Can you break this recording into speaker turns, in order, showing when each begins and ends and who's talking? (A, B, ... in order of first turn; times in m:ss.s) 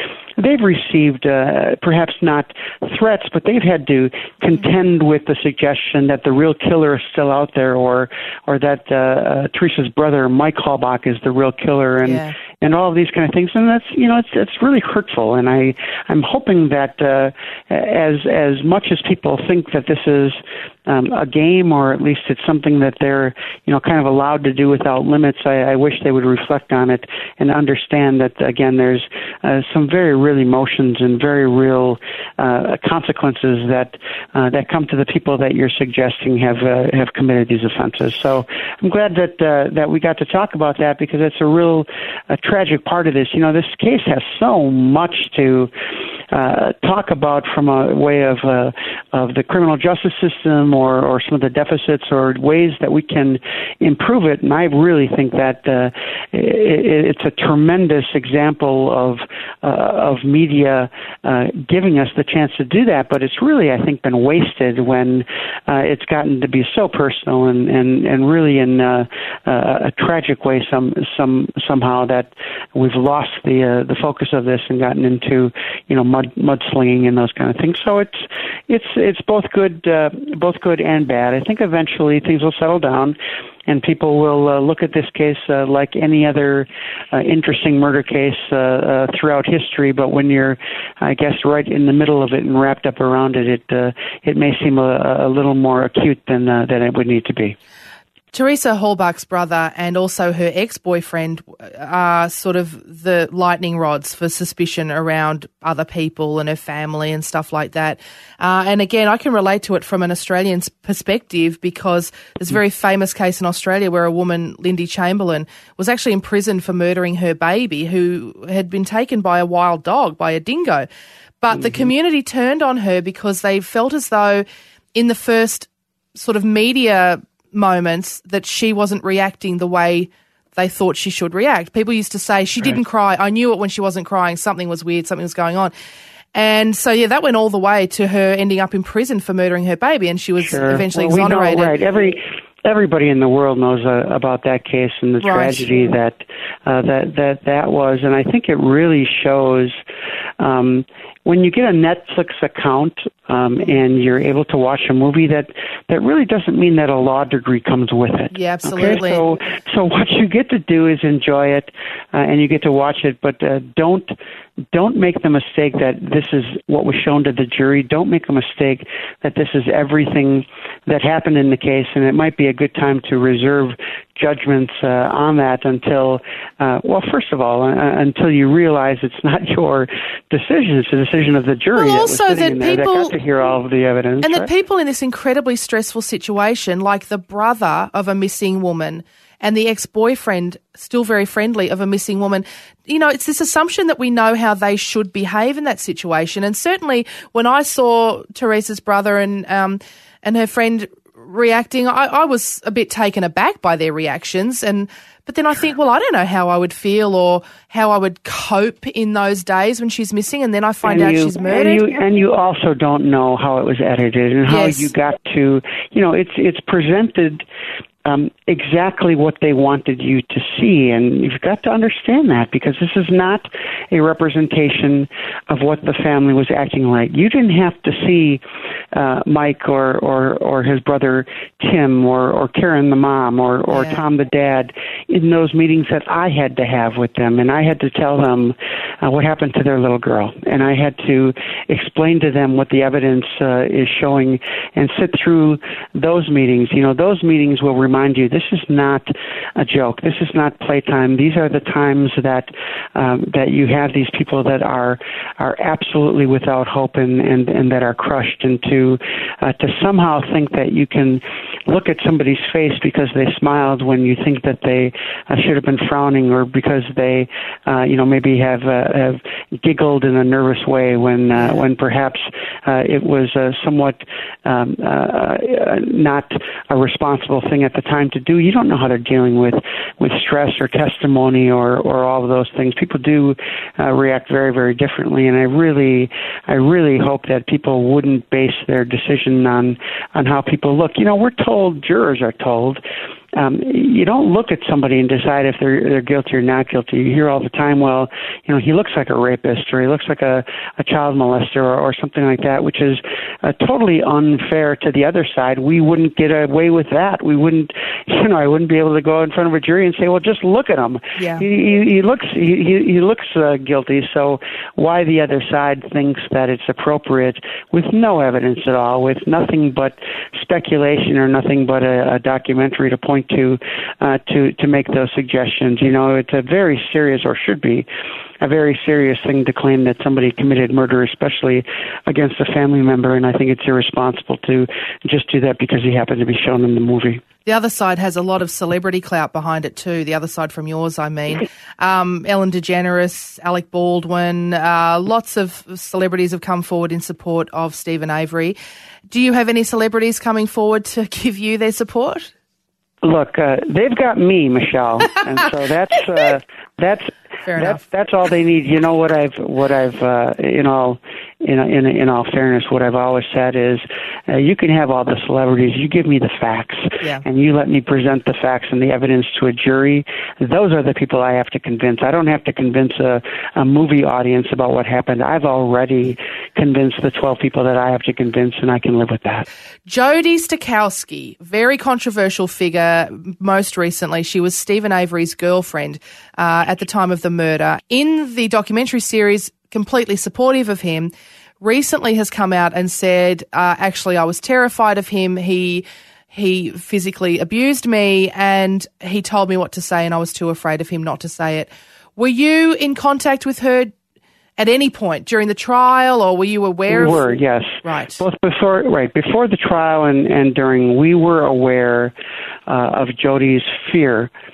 0:00.4-0:45.7 A
0:12.0-0:12.3 B
0:46.3-1:37.6 A
1:38.3-2:00.9 B
2:01.4-2:15.7 B
2:16.3-2:21.7 B
2:20.4-2:29.8 A
2:25.2-2:25.7 B
2:30.4-2:44.1 A
2:38.3-2:39.3 B
2:44.7-3:04.5 A
3:01.8-3:03.1 B
3:04.2-3:31.8 B
3:30.8-3:37.4 A
3:34.4-3:34.9 B
3:38.0-4:52.8 A
3:53.7-3:54.0 B
4:31.3-4:31.6 B
4:53.3-5:27.9 A
5:11.2-5:11.4 B
5:28.4-5:37.2 A
5:37.4-5:48.6 B
5:49.1-5:52.3 B
5:53.0-6:19.5 A
5:57.4-5:57.8 B
6:19.9-6:43.9 B
6:44.6-6:48.2 B
6:46.9-6:52.1 A
6:52.6-6:54.3 A